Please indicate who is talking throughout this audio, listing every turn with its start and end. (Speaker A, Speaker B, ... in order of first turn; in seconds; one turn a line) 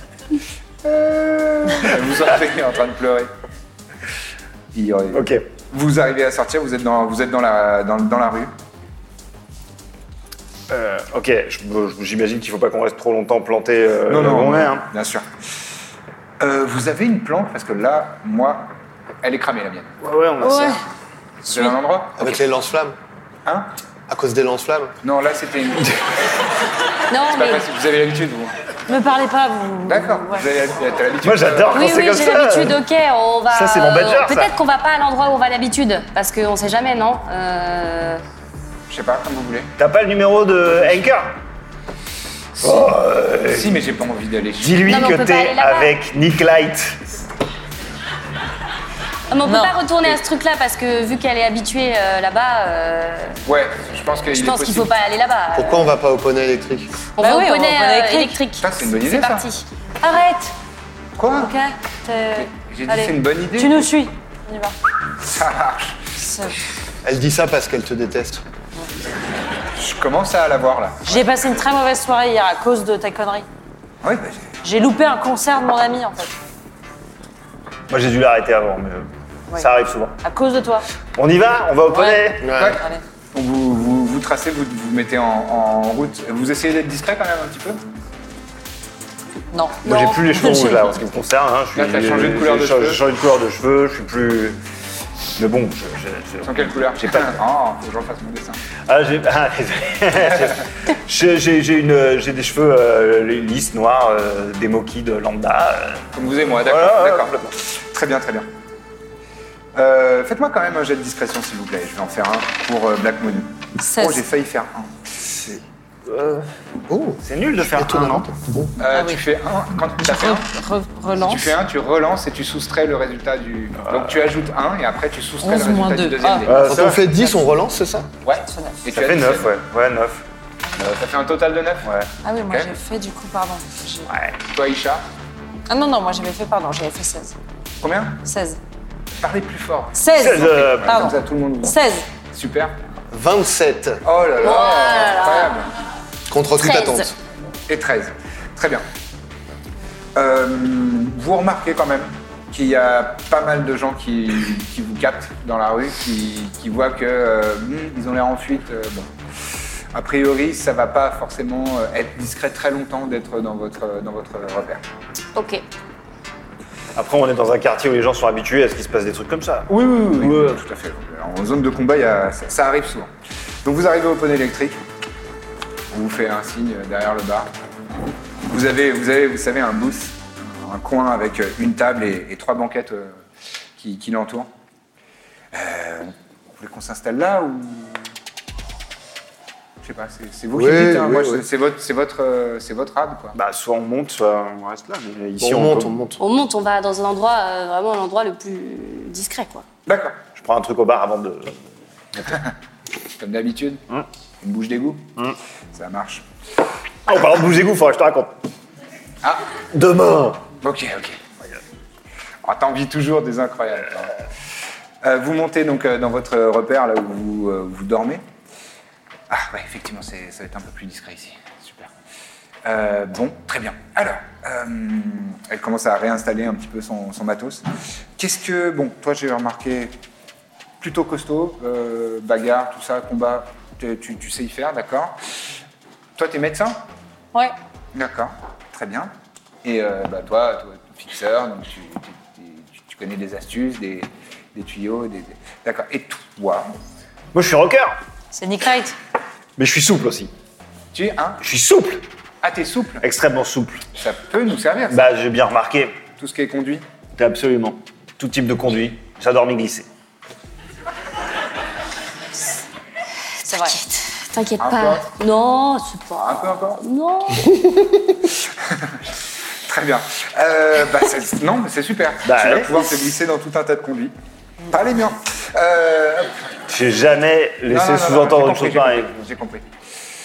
Speaker A: 0.8-3.3
Speaker A: 4.7-8.5
Speaker B: 5.1-5.4
Speaker B: 10.7-14.9
Speaker A: 14.1-15.2
Speaker A: 16.4-19.9
Speaker B: 20.0-20.8
Speaker C: 20.4-20.8
Speaker A: 21.4-22.3
Speaker D: 22.2-22.9
Speaker A: 23.4-23.7
Speaker D: 24.1-24.9
Speaker A: 25.0-26.3
Speaker E: 27.1-27.6
Speaker A: 27.2-28.5
Speaker C: 28.9-30.5
Speaker A: 29.9-32.0
Speaker B: 31.2-32.8
Speaker E: 31.7-38.2
Speaker B: 33.5-34.5
Speaker A: 38.9-39.7
Speaker B: 39.8-41.4
Speaker A: 42.6-42.9
Speaker B: 42.6-43.8
Speaker A: 43.5-44.8
Speaker B: 44.6-47.0
Speaker E: 44.8-45.9
Speaker E: 49.3-53.4
Speaker C: 49.4-49.8
Speaker A: 53.4-54.9
Speaker E: 54.3-55.9
Speaker D: 55.5-56.9
Speaker E: 57.1-59.6
Speaker C: 57.2-58.4
Speaker A: 58.6-59.5
Speaker C: 60.0-60.5
Speaker A: 61.1-61.5
Speaker C: 61.3-64.8
Speaker A: 62.3-63.9
Speaker A: 65.2-66.1
Speaker C: 66.2-66.6
Speaker D: 67.0-68.4
Speaker A: 69.7-71.2
Speaker C: 71.1-73.5
Speaker A: 74.0-74.5
Speaker C: 74.6-76.3
Speaker B: 77.9-80.2
Speaker C: 80.2-80.8
Speaker B: 81.1-82.5
Speaker C: 81.9-83.0
Speaker D: 82.4-82.8
Speaker A: 82.5-87.8
Speaker C: 89.5-91.0
Speaker B: 89.8-94.6
Speaker A: 91.7-93.0
Speaker B: 95.4-97.4
Speaker A: 96.4-98.6
Speaker B: 98.8-107.6
Speaker A: 106.1-108.5
Speaker A: 109.7-114.9
Speaker C: 113.8-114.2
Speaker B: 116.0-116.5
Speaker D: 116.9-118.7
Speaker B: 117.2-118.3
Speaker A: 118.8-120.5
Speaker C: 118.9-119.2
Speaker C: 120.0-121.6
Speaker A: 121.2-126.6
Speaker C: 125.4-127.4
Speaker B: 126.4-127.0
Speaker D: 126.6-128.1
Speaker A: 128.2-129.6
Speaker C: 128.4-128.8
Speaker B: 128.9-130.2
Speaker A: 130.8-131.9
Speaker B: 131.8-132.1
Speaker C: 132.2-134.1
Speaker B: 134.1-134.3
Speaker A: 134.4-135.1
Speaker C: 135.7-137.3
Speaker A: 137.8-138.2
Speaker C: 138.2-138.6
Speaker A: 139.2-142.8
Speaker C: 139.9-142.1
Speaker B: 140.2-141.0
Speaker D: 143.1-144.0
Speaker A: 144.0-145.7
Speaker E: 144.4-145.6
Speaker D: 146.3-147.1
Speaker E: 146.6-147.1
Speaker A: 147.7-148.8
Speaker A: 150.1-159.1
Speaker A: 159.9-164.8
Speaker E: 165.3-165.6
Speaker B: 166.9-170.6
Speaker A: 169.7-173.1
Speaker A: 173.6-174.8
Speaker A: 175.9-177.5
Speaker A: 178.5-183.2
Speaker A: 183.8-184.5
Speaker A: 185.5-188.1
Speaker A: 189.8-193.4
Speaker D: 190.5-191.4
Speaker B: 193.3-196.0
Speaker D: 195.4-196.2
Speaker E: 196.2-199.6
Speaker A: 199.8-200.2
Speaker B: 200.3-201.6
Speaker B: 202.2-202.4
Speaker A: 203.2-203.8
Speaker A: 204.4-205.1
Speaker A: 205.7-206.2
Speaker B: 207.1-208.3
Speaker B: 209.7-210.4
Speaker A: 210.6-211.2
Speaker A: 212.4-214.1
Speaker A: 215.0-218.2
Speaker A: 219.3-221.9
Speaker A: 222.6-227.7
Speaker A: 228.2-229.9
Speaker A: 230.8-235.2
Speaker A: 236.2-236.8
Speaker A: 237.9-239.1
Speaker A: 239.6-246.7
Speaker B: 247.3-248.0
Speaker C: 248.3-248.9
Speaker B: 249.6-250.3
Speaker A: 250.9-251.4
Speaker B: 251.4-252.0
Speaker A: 252.4-253.0
Speaker B: 253.0-253.8
Speaker A: 254.0-255.0
Speaker B: 254.9-255.9
Speaker A: 256.2-256.8
Speaker B: 257.1-259.9
Speaker C: 263.4-263.8
Speaker E: 263.6-268.0
Speaker A: 264.6-265.1
Speaker A: 266.2-266.8
Speaker A: 268.6-269.0
Speaker A: 269.6-274.1
Speaker B: 272.2-272.7
Speaker A: 274.7-276.5
Speaker B: 276.7-279.2
Speaker A: 277.7-279.7